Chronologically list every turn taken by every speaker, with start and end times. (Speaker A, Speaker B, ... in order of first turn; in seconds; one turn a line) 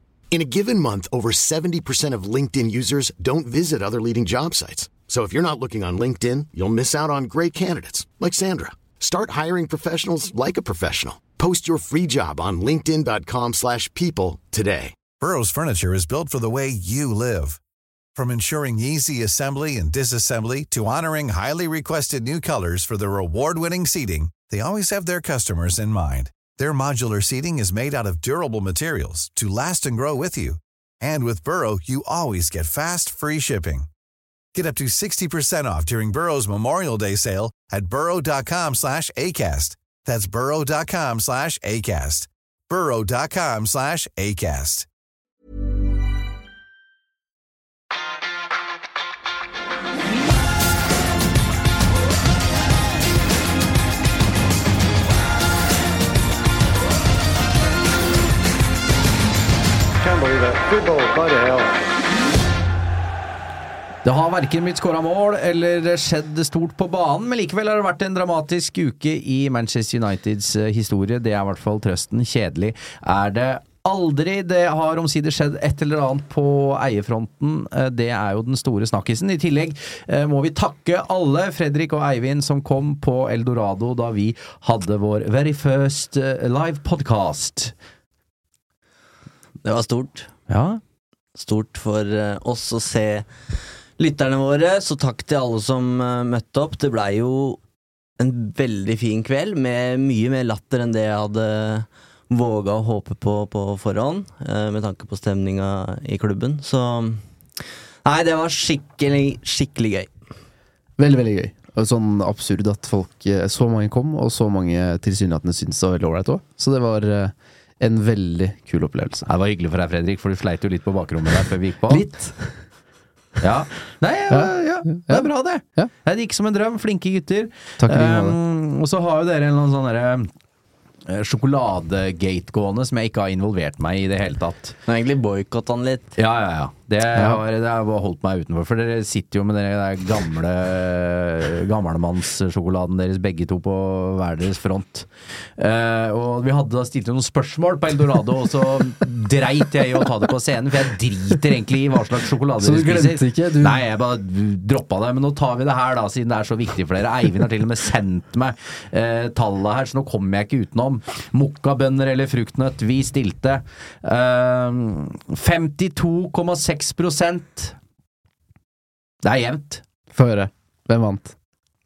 Speaker A: 0.3-15.0
Speaker B: 15.2-17.6
Speaker B: 18.1-33.9
Speaker B: 34.5-44.9
Speaker C: 64.0-87.7
Speaker D: 89.6-90.3
Speaker C: 90.5-90.8
Speaker D: 91.4-93.3
Speaker D: 94.0-97.6
Speaker D: 98.2-107.2
Speaker D: 108.0-110.1
Speaker E: 111.0-119.3
Speaker C: 119.2-122.1
Speaker E: 121.9-122.6
Speaker C: 123.4-130.3
Speaker E: 124.3-125.9
Speaker E: 127.8-128.4
Speaker C: 131.1-134.8
Speaker D: 134.9-136.1
Speaker C: 136.2-167.8
Speaker E: 137.1-137.4
Speaker E: 152.6-153.8
Speaker C: 169.2-169.8
Speaker E: 170.1-171.3